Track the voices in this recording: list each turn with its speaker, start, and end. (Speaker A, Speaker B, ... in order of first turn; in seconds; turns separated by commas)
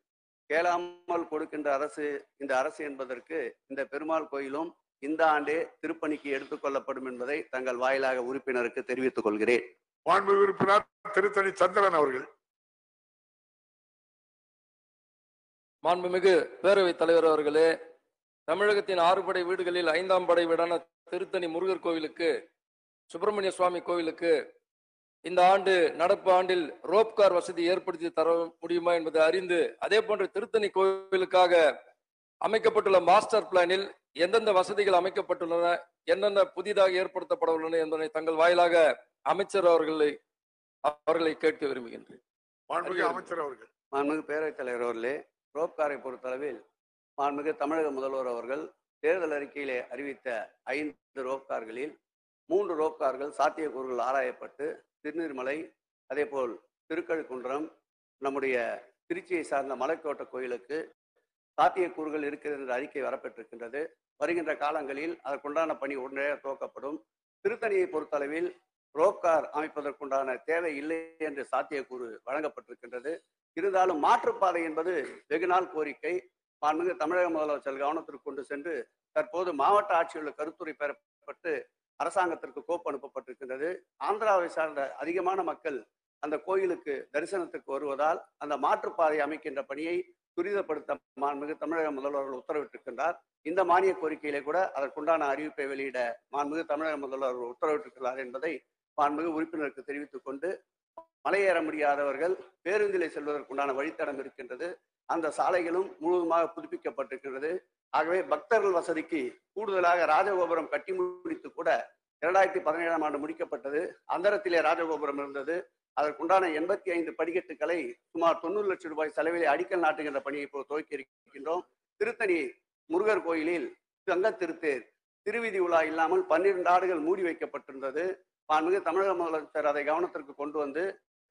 Speaker A: 0.5-9.6, Speaker B: 10.1-12.3, Speaker C: 15.8-17.7, Speaker C: 18.5-22.3, Speaker C: 23.1-24.3, Speaker C: 25.2-31.6, Speaker C: 32.5-40.1, Speaker C: 40.8-42.2, Speaker B: 42.7-43.7, Speaker C: 42.8-43.3, Speaker A: 43.9-46.6, Speaker A: 47.2-51.9, Speaker A: 52.5-55.6, Speaker A: 56.1-57.7, Speaker A: 58.2-60.8, Speaker A: 61.6-100.5, Speaker A: 101.2-130.8